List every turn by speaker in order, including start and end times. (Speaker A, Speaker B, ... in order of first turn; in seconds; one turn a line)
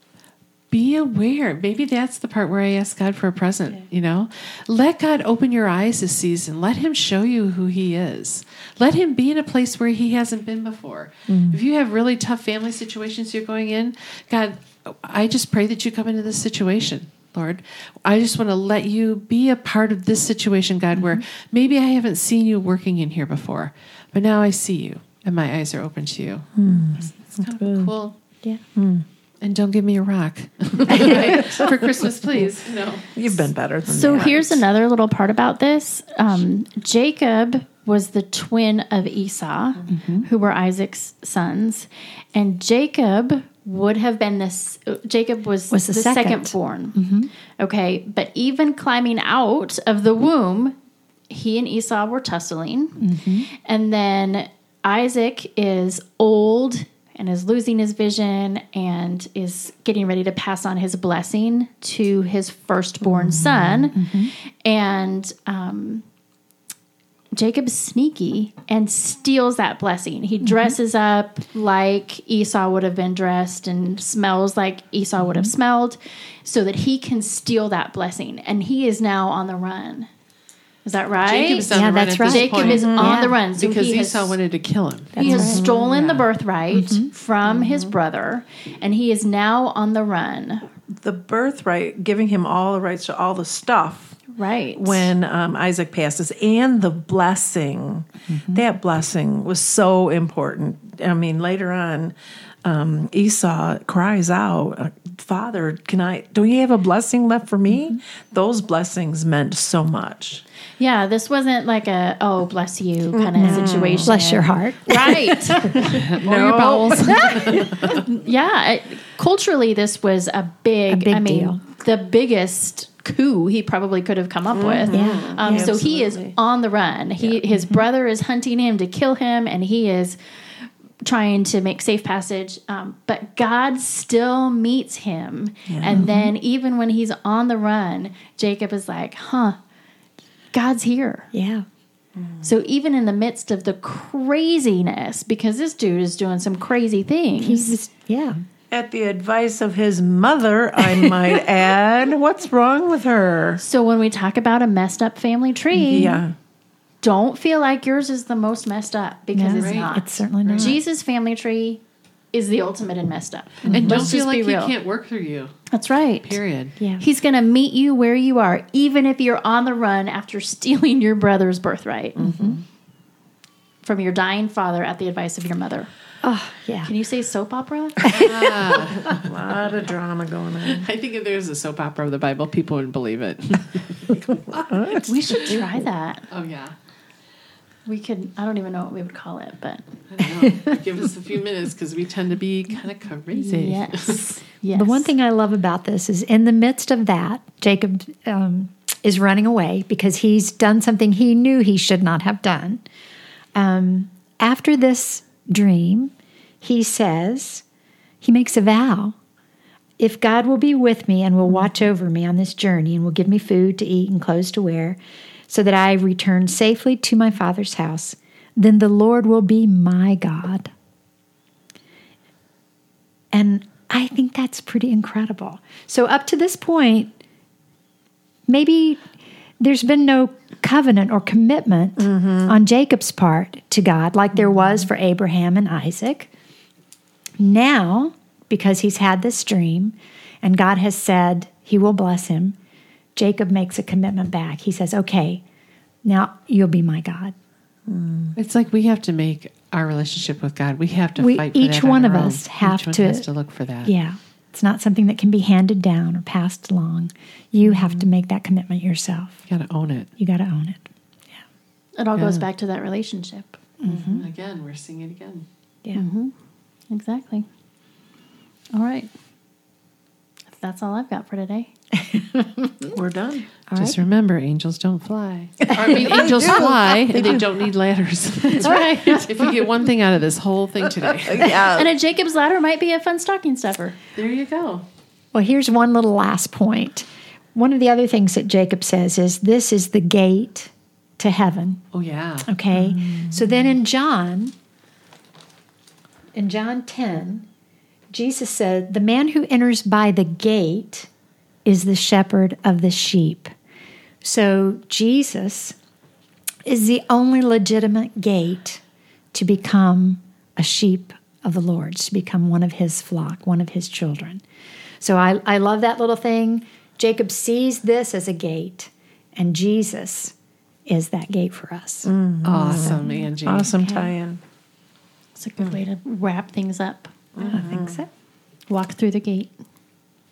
Speaker A: 0.7-26.5
Speaker B: 11.3-11.6
Speaker B: 26.6-27.9
Speaker A: 27.1-28.1
Speaker B: 28.8-29.0
Speaker A: 29.4-33.5
Speaker B: 33.1-34.6
Speaker C: 33.9-47.0
Speaker D: 39.9-40.3
Speaker D: 45.7-47.3
Speaker C: 47.6-50.8
Speaker C: 51.3-64.0
Speaker D: 53.0-53.5
Speaker D: 63.0-64.3
Speaker C: 64.6-66.0
Speaker C: 67.3-80.1
Speaker D: 70.4-70.8
Speaker D: 75.2-75.5
Speaker C: 80.8-84.4
Speaker A: 81.2-86.3
Speaker D: 81.7-83.4
Speaker B: 82.6-83.1
Speaker D: 85.2-85.6
Speaker C: 85.2-90.7
Speaker B: 85.5-85.8
Speaker D: 86.7-87.1
Speaker B: 91.0-94.2
Speaker C: 94.3-95.1
Speaker B: 94.7-102.1
Speaker D: 98.3-98.6
Speaker B: 102.6-110.4
Speaker C: 110.8-116.0
Speaker B: 113.1-114.1
Speaker D: 113.3-115.9
Speaker A: 115.9-118.0
Speaker B: 116.2-117.0
Speaker D: 116.9-117.6
Speaker C: 117.0-130.2
Speaker D: 120.9-121.6
Speaker B: 124.5-126.3
Speaker D: 124.9-125.8
Speaker D: 127.5-127.8
Speaker C: 131.0-139.6
Speaker B: 135.7-136.0
Speaker D: 135.8-136.3
Speaker C: 140.5-141.3
Speaker D: 141.3-141.6
Speaker B: 142.2-142.5
Speaker C: 142.4-147.8
Speaker D: 147.3-148.4
Speaker B: 148.7-153.6
Speaker C: 153.6-156.2
Speaker D: 155.8-156.2
Speaker B: 155.9-156.3
Speaker C: 157.0-161.8
Speaker D: 159.3-160.8
Speaker A: 159.5-160.8
Speaker C: 162.3-164.7
Speaker D: 163.6-164.1
Speaker A: 163.7-165.5
Speaker C: 165.7-166.4
Speaker A: 166.2-166.7
Speaker D: 166.8-167.0
Speaker C: 167.0-172.2
Speaker D: 172.2-172.6
Speaker B: 172.2-172.5
Speaker C: 173.8-175.9
Speaker D: 176.2-176.9
Speaker C: 176.8-178.2
Speaker D: 178.0-178.8
Speaker A: 178.1-179.3
Speaker B: 179.0-180.9
Speaker A: 180.6-184.2
Speaker B: 184.5-185.6
Speaker C: 185.1-186.2
Speaker A: 186.3-186.7
Speaker C: 187.8-189.8
Speaker A: 190.1-194.3
Speaker C: 193.4-195.1
Speaker D: 194.7-202.8
Speaker D: 203.5-207.6
Speaker D: 208.2-209.1
Speaker D: 210.0-220.7
Speaker D: 223.3-227.1
Speaker D: 228.5-229.0
Speaker D: 229.6-236.3
Speaker B: 232.0-232.6
Speaker D: 237.4-242.6
Speaker D: 243.2-245.4
Speaker D: 246.0-247.3
Speaker B: 247.9-248.3
Speaker A: 248.3-253.9
Speaker D: 251.2-253.3
Speaker D: 253.8-259.4
Speaker A: 257.6-258.0
Speaker A: 259.5-260.1
Speaker D: 260.2-260.8
Speaker C: 262.0-263.6
Speaker D: 263.8-264.2
Speaker A: 263.8-265.4
Speaker C: 265.9-266.3
Speaker C: 266.9-267.4
Speaker C: 268.7-269.1
Speaker C: 270.5-271.7
Speaker D: 272.1-272.9
Speaker B: 272.9-273.5
Speaker D: 273.7-274.0
Speaker A: 273.7-281.6
Speaker D: 275.7-276.7
Speaker B: 276.2-277.4
Speaker C: 278.6-279.2
Speaker B: 281.2-281.9
Speaker C: 281.6-284.0
Speaker A: 284.1-284.8
Speaker D: 285.3-291.8
Speaker A: 291.9-292.5
Speaker D: 292.4-294.5
Speaker B: 292.8-293.3
Speaker D: 296.3-297.5
Speaker D: 298.1-301.1
Speaker D: 301.6-303.5
Speaker D: 304.2-305.7
Speaker D: 306.6-308.8
Speaker D: 309.3-314.4
Speaker D: 315.0-320.3
Speaker D: 320.9-322.1
Speaker B: 322.0-324.4
Speaker A: 322.4-323.7
Speaker D: 322.7-323.1
Speaker D: 323.8-324.1
Speaker C: 325.3-327.1
Speaker B: 327.4-328.0
Speaker D: 327.4-328.1
Speaker C: 328.7-329.5